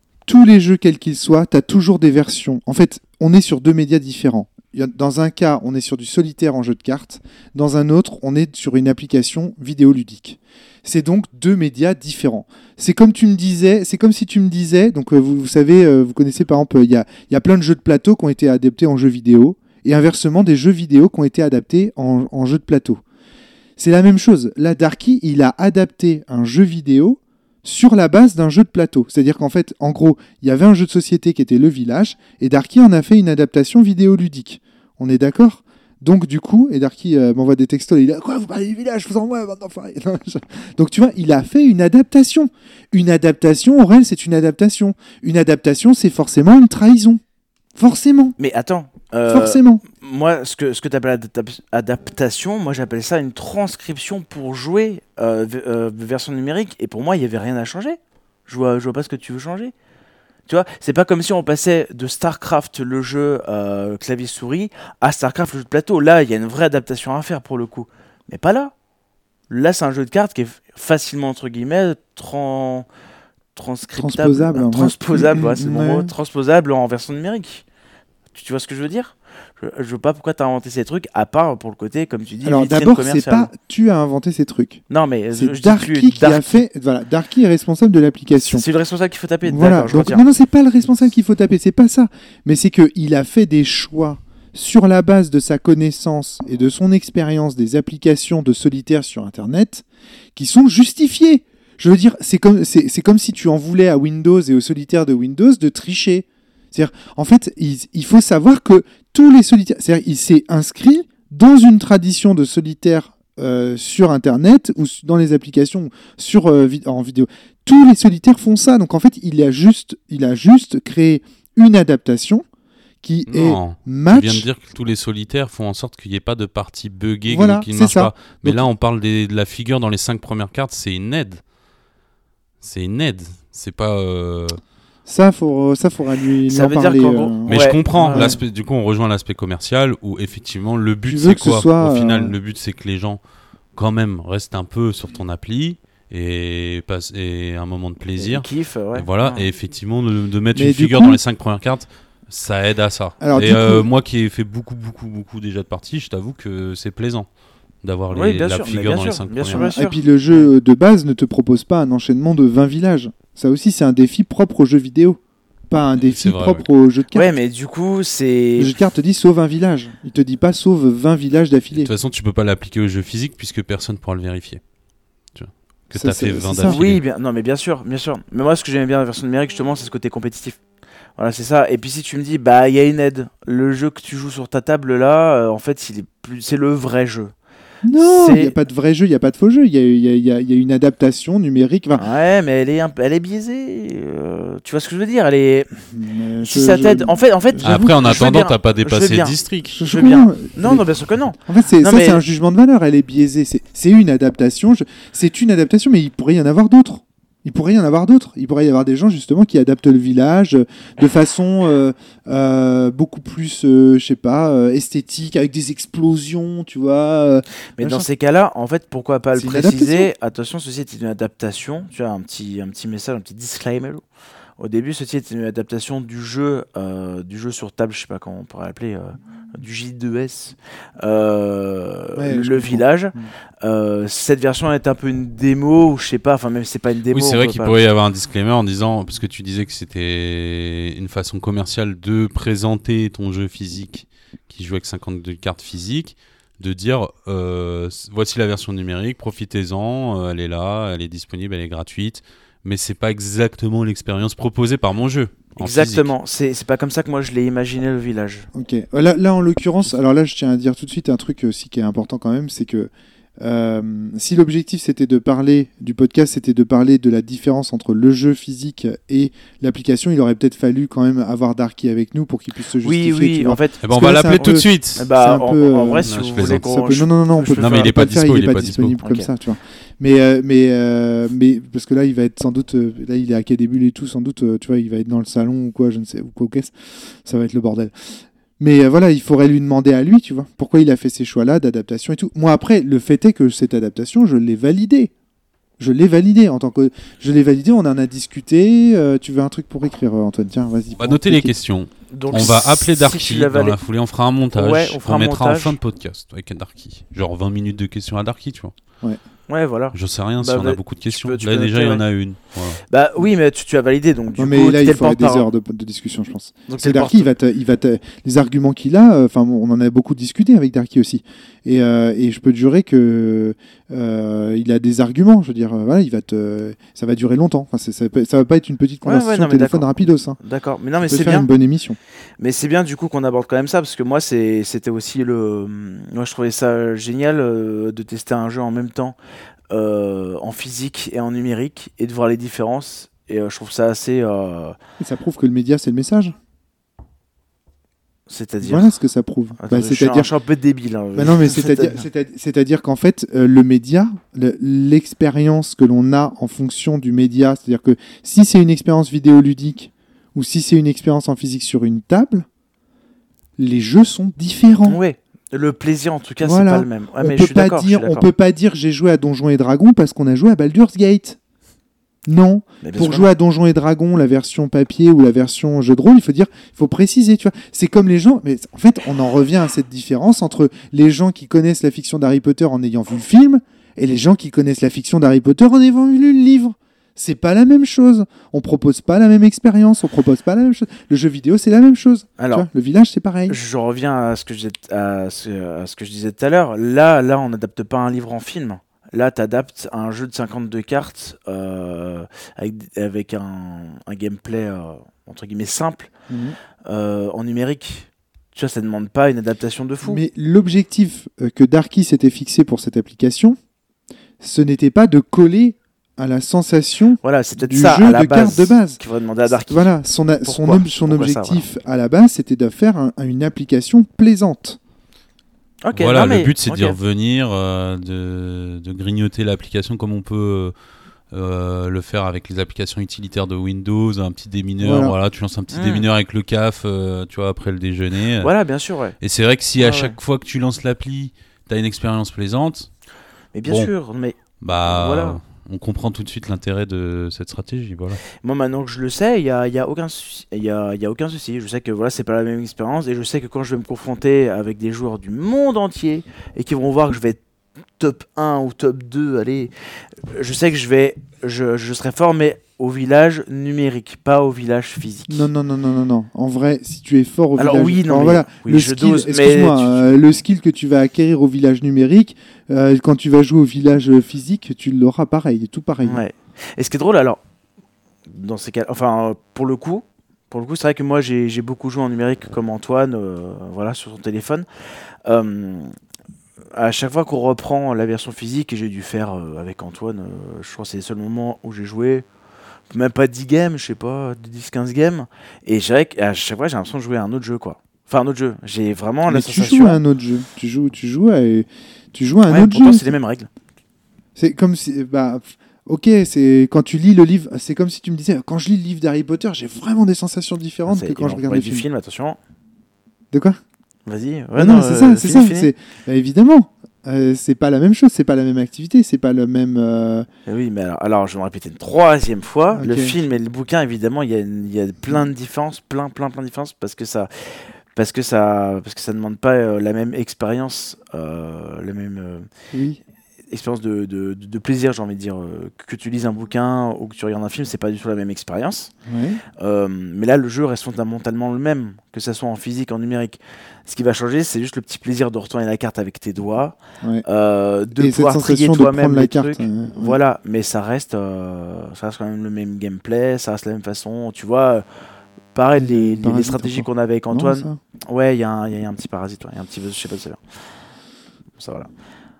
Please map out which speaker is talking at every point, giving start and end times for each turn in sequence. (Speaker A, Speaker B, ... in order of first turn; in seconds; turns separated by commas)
Speaker A: 0.2-23.0, Speaker A: 23.8-47.2, Speaker A: 47.7-48.4, Speaker B: 48.4-59.7, Speaker A: 49.3-49.8, Speaker B: 60.5-68.7, Speaker B: 69.5-72.9, Speaker B: 73.5-77.6, Speaker A: 74.0-76.1, Speaker B: 78.3-83.5, Speaker A: 82.4-84.8, Speaker B: 84.9-86.6, Speaker A: 85.3-88.6, Speaker B: 88.5-90.2, Speaker A: 89.4-122.4, Speaker A: 123.0-124.4, Speaker C: 123.3-131.4, Speaker A: 127.3-128.7, Speaker C: 132.6-134.6, Speaker A: 135.1-138.4, Speaker B: 136.5-138.3, Speaker C: 137.5-143.2, Speaker A: 141.1-142.3, Speaker C: 143.7-157.3, Speaker B: 148.2-149.4, Speaker A: 150.5-151.2, Speaker A: 153.2-153.8, Speaker C: 157.8-159.7, Speaker B: 158.1-160.0, Speaker A: 159.5-167.3, Speaker C: 166.0-166.6, Speaker B: 167.1-168.7, Speaker A: 168.6-171.9, Speaker C: 171.7-174.6, Speaker C: 175.3-177.0, Speaker A: 175.9-176.8, Speaker B: 176.6-180.6, Speaker B: 181.2-187.3, Speaker A: 187.8-192.0, Speaker B: 188.0-188.5, Speaker B: 192.0-195.8, Speaker A: 195.9-198.2, Speaker B: 196.4-202.2, Speaker C: 197.6-199.8, Speaker A: 199.7-200.8, Speaker A: 201.4-218.1, Speaker B: 217.8-224.0, Speaker A: 219.3-220.1, Speaker B: 224.6-237.8, Speaker A: 232.2-233.3, Speaker C: 237.1-256.1, Speaker B: 255.6-258.5, Speaker A: 258.5-295.1, Speaker B: 272.8-277.9, Speaker C: 273.8-275.1, Speaker C: 276.0-276.6, Speaker C: 277.6-279.0, Speaker B: 279.0-279.3, Speaker A: 295.8-301.5, Speaker C: 301.0-308.7, Speaker B: 302.1-303.8, Speaker B: 304.5-305.8, Speaker B: 309.5-312.0, Speaker C: 309.9-312.8, Speaker B: 312.9-315.5, Speaker A: 314.4-330.4, Speaker B: 316.7-317.3, Speaker B: 329.0-331.5, Speaker A: 331.0-332.0, Speaker B: 332.4-339.1, Speaker B: 339.7-344.8, Speaker A: 345.0-346.3, Speaker B: 348.3-348.9, Speaker A: 348.6-350.3, Speaker B: 349.6-352.0, Speaker A: 351.1-362.5, Speaker A: 363.6-365.0, Speaker B: 364.8-368.3, Speaker A: 366.4-371.4, Speaker A: 372.2-393.6, Speaker B: 372.8-373.3, Speaker B: 392.4-392.7, Speaker B: 393.5-406.1, Speaker A: 406.3-406.6, Speaker B: 406.9-410.2, Speaker A: 410.0-413.6, Speaker A: 414.4-419.0, Speaker B: 417.2-419.9, Speaker A: 419.6-424.8, Speaker B: 420.4-421.6, Speaker B: 425.8-427.0, Speaker C: 425.9-430.7, Speaker C: 431.3-438.5, Speaker A: 434.8-435.1, Speaker B: 435.7-436.1, Speaker B: 438.4-439.1, Speaker C: 439.2-442.9, Speaker B: 439.8-440.2, Speaker B: 443.5-445.4, Speaker C: 443.6-443.9, Speaker C: 444.6-448.2, Speaker B: 448.4-457.4, Speaker B: 458.0-459.7, Speaker B: 460.2-465.5, Speaker A: 465.3-476.2, Speaker B: 467.6-470.1, Speaker B: 476.0-477.4, Speaker B: 478.3-484.6, Speaker B: 485.2-485.9, Speaker B: 486.7-492.2, Speaker B: 492.9-500.0, Speaker A: 499.3-503.1, Speaker B: 502.5-503.5, Speaker A: 504.4-511.9, Speaker B: 510.9-512.4, Speaker A: 513.3-513.6, Speaker B: 514.0-515.7, Speaker A: 514.6-520.3, Speaker B: 520.5-532.5, Speaker A: 522.7-523.1, Speaker A: 532.7-533.0, Speaker B: 533.5-538.9, Speaker A: 539.1-539.4, Speaker B: 539.6-554.8, Speaker A: 548.0-550.2, Speaker B: 555.5-560.4, Speaker A: 555.8-557.8, Speaker B: 561.6-561.9